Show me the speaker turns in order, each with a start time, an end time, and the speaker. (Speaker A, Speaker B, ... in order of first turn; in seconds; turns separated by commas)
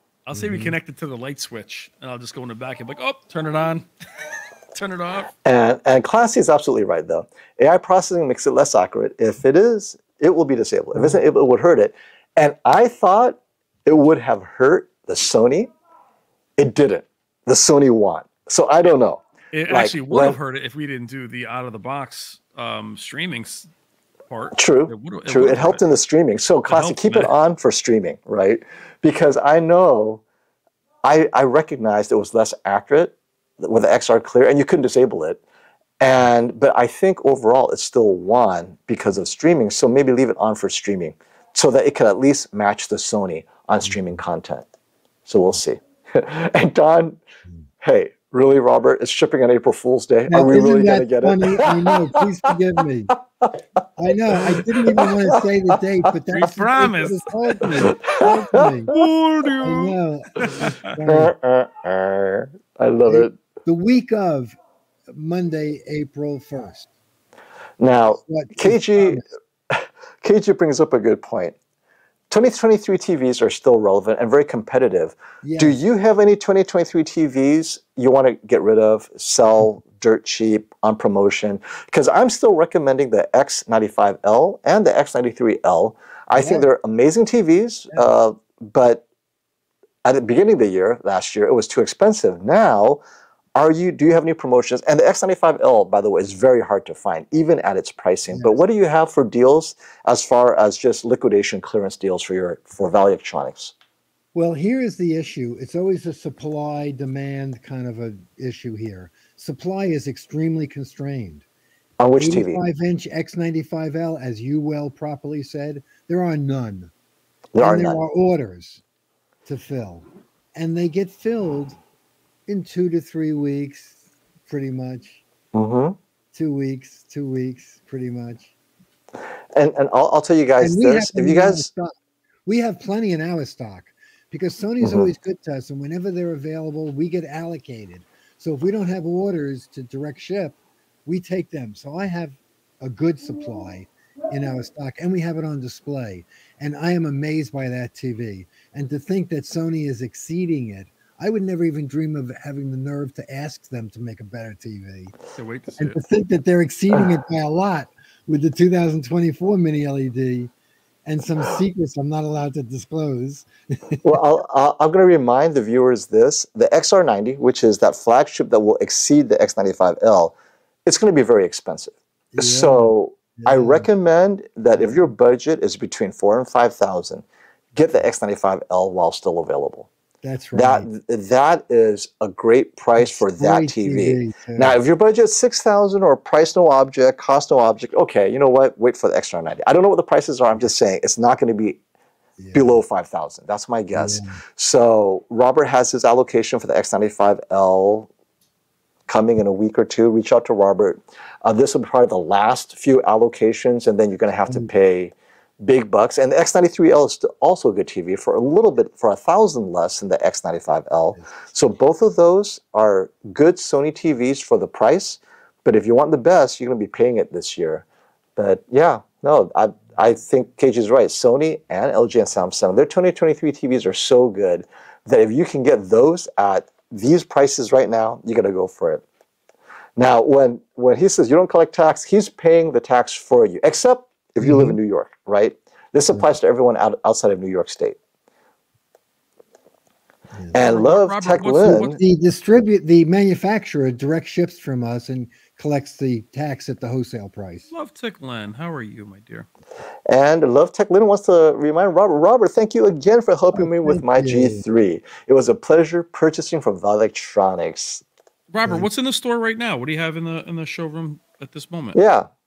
Speaker A: 0.3-5.3, Speaker B: 0.3-0.8, Speaker C: 5.5-15.7, Speaker B: 10.9-11.2, Speaker C: 16.6-20.4, Speaker A: 19.5-23.7, Speaker A: 24.3-25.8, Speaker C: 24.5-30.2, Speaker A: 26.7-27.3, Speaker C: 31.0-35.4, Speaker C: 36.0-44.7, Speaker C: 45.3-47.2, Speaker C: 47.8-52.2, Speaker B: 50.3-53.1, Speaker B: 54.0-58.9, Speaker C: 54.3-55.4, Speaker A: 56.3-57.9, Speaker C: 57.8-59.0, Speaker A: 58.9-60.9, Speaker B: 59.6-61.3, Speaker C: 61.0-63.3, Speaker B: 63.1-64.6, Speaker B: 65.1-66.9, Speaker C: 67.8-69.2, Speaker B: 68.1-69.2, Speaker C: 69.7-71.6, Speaker C: 72.3-89.0, Speaker B: 75.4-75.8, Speaker B: 86.4-86.7, Speaker C: 90.0-93.0, Speaker C: 93.6-103.7, Speaker B: 98.3-98.6, Speaker B: 104.3-111.5, Speaker C: 112.0-112.6, Speaker B: 112.2-116.9, Speaker C: 117.5-118.0, Speaker B: 117.6-118.8, Speaker B: 119.5-121.8, Speaker B: 122.5-125.2, Speaker C: 125.5-126.0, Speaker B: 126.3-128.5, Speaker C: 129.6-131.7, Speaker B: 130.6-131.9, Speaker B: 132.5-155.2, Speaker C: 134.8-135.1, Speaker A: 155.4-156.0, Speaker B: 155.8-160.5, Speaker B: 161.1-164.2, Speaker C: 164.0-170.3, Speaker C: 170.9-179.9, Speaker B: 172.3-173.9, Speaker B: 180.2-180.9, Speaker C: 180.6-191.8, Speaker B: 183.0-184.8, Speaker B: 192.4-192.8, Speaker C: 192.5-198.1, Speaker B: 193.9-194.4, Speaker C: 199.1-217.8, Speaker B: 211.2-211.5, Speaker C: 218.4-229.0, Speaker C: 230.0-238.0, Speaker B: 234.4-234.8, Speaker B: 240.3-240.7, Speaker C: 240.5-242.0, Speaker A: 240.6-242.0, Speaker B: 241.9-247.7, Speaker A: 247.7-249.5, Speaker C: 250.1-258.0, Speaker B: 253.6-254.6, Speaker A: 258.5-262.0, Speaker C: 261.9-262.3